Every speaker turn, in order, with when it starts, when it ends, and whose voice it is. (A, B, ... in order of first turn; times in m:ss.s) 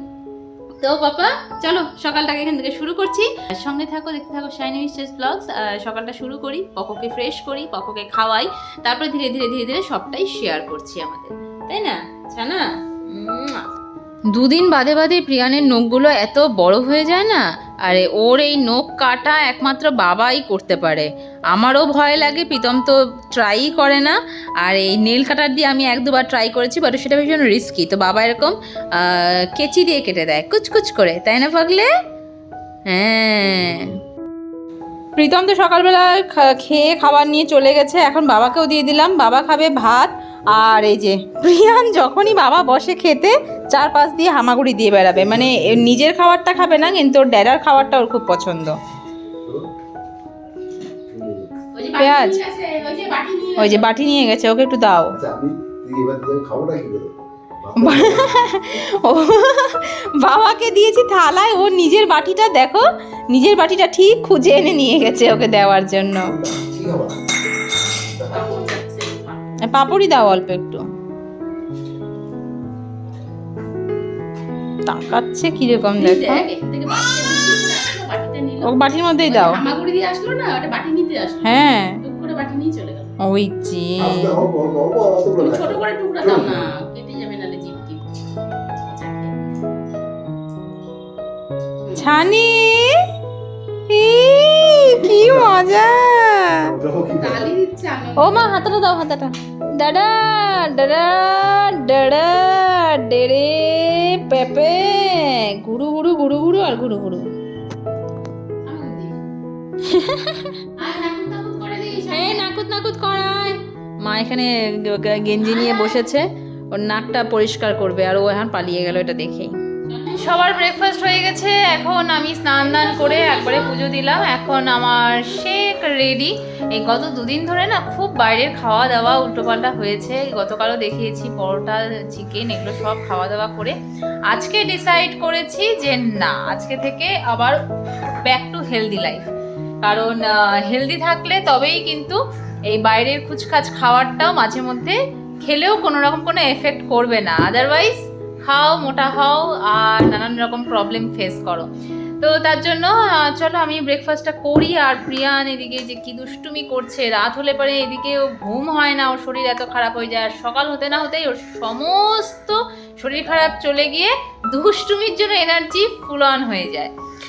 0:00.8-0:13.6 A
0:14.3-0:31.9 A
0:32.9-0:33.9 A
0:35.2-0:48.8 A
0:45.2-0:45.9 B
0:49.4-0:49.7 B
0:51.1-0:51.5 B
0:51.7-0:53.9 C
0:52.0-0:52.4 A
0:53.6-0:55.2 A
0:55.2-0:58.3 B
0:57.8-1:06.4 A
1:06.2-1:07.2 B
1:08.1-1:08.4 B
1:08.3-1:09.5 C
1:09.7-1:10.8 A
1:14.9-1:16.4 A
1:16.0-1:23.1 C
1:18.6-1:19.6 A
1:21.4-1:22.0 A
1:23.2-1:24.5 A
1:24.0-1:26.7 B
1:25.4-1:28.0 C
1:28.8-1:29.3 C
1:31.8-1:32.1 C
1:32.0-1:33.0 A
1:33.9-1:36.7 A
1:35.2-1:35.6 B
1:36.6-1:37.5 B
1:37.2-1:38.4 C
1:38.2-1:47.3 A
1:48.7-1:49.2 C
1:49.8-1:50.7 A
1:50.8-1:52.4 C
1:52.1-1:59.6 A
1:55.4-1:56.0 C
1:59.9-2:00.4 C
2:00.2-2:13.8 A
2:02.6-2:03.8 C
2:14.3-2:17.6 A
2:18.2-2:19.3 A
2:19.8-2:31.7 A
2:32.2-2:46.9 A